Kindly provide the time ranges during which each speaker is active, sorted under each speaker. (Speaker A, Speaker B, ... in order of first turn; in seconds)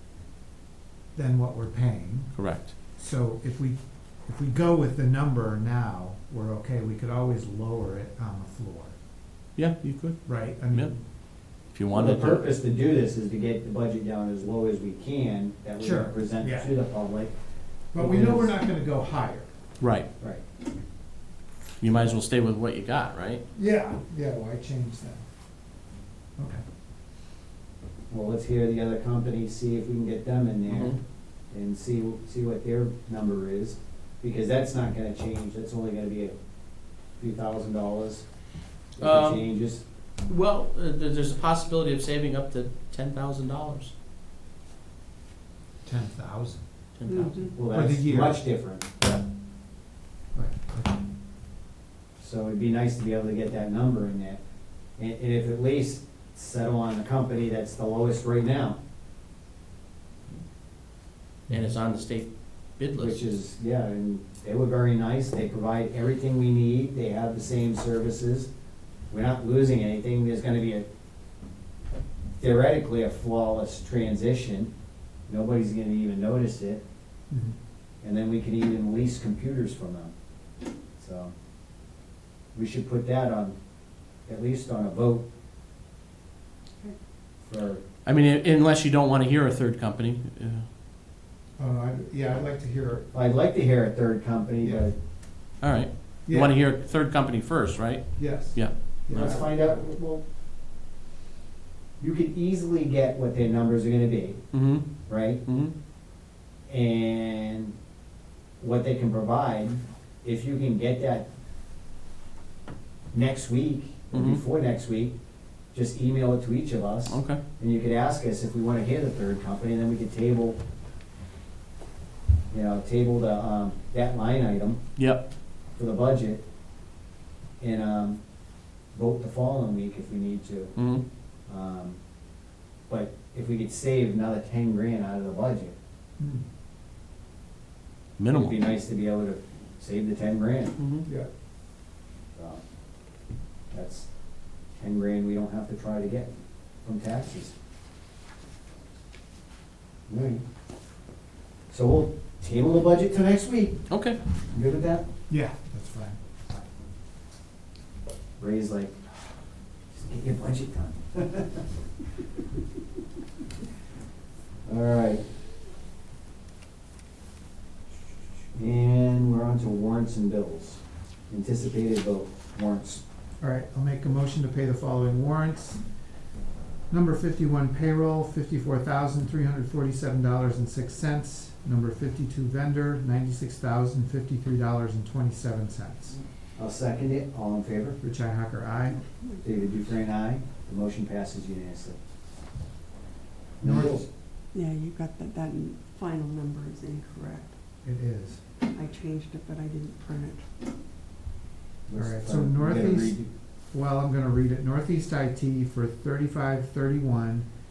Speaker A: 1.1-8.9, 10.2-11.0, 15.8-16.7, 17.9-19.5, 23.5-25.2, 26.4-26.6, 45.8-46.6, 47.7-48.4, 50.3-51.0, 77.3-77.5, 91.6-93.1, 94.6-94.9, 96.3-96.5, 98.2-99.8, 136.2-136.4, 155.3-156.2, 173.4-176.0, 176.9-186.2, 188.0-189.1, 193.6-194.0, 197.8-198.4, 201.9-207.5
Speaker B: 2.3-2.7, 9.6-12.5, 19.8-20.1, 21.8-23.4, 30.7-31.0, 39.0-39.5, 40.1-43.9, 46.9-47.5, 61.5-63.2, 88.0-90.7, 95.6-99.2, 104.5-105.7, 114.1-114.4, 117.1-117.4, 125.0-125.2, 130.8-131.0, 138.2-138.6, 140.8-141.1, 153.9-154.2
Speaker C: 11.9-17.3, 17.9-18.5, 28.1-36.3, 37.2-38.3, 39.0-39.8, 47.5-49.1, 52.2-58.8, 63.0-68.5, 69.1-70.8, 72.4-74.7, 75.3-76.8, 78.0-80.1, 81.0-81.3, 82.5-83.5, 84.2-85.2, 87.4-87.8, 93.1-95.0, 99.1-100.2, 102.0-105.4, 106.7-107.7, 108.6-111.2, 113.1-115.1, 115.7-120.6, 122.5-124.8, 125.7-126.4, 127.6-128.2, 128.9-130.8, 131.5-132.0, 132.9-135.7, 138.3-140.8, 142.3-142.6, 143.7-144.1, 144.7-147.5, 150.1-150.4, 151.7-153.8, 154.5-155.1, 158.4-159.0, 159.9-161.7, 164.7-165.2, 168.5-173.0, 186.6-188.0, 189.4-192.0, 193.6-194.1, 201.9-203.3
Speaker D: 47.0-47.5, 194.5-197.6, 198.7-200.4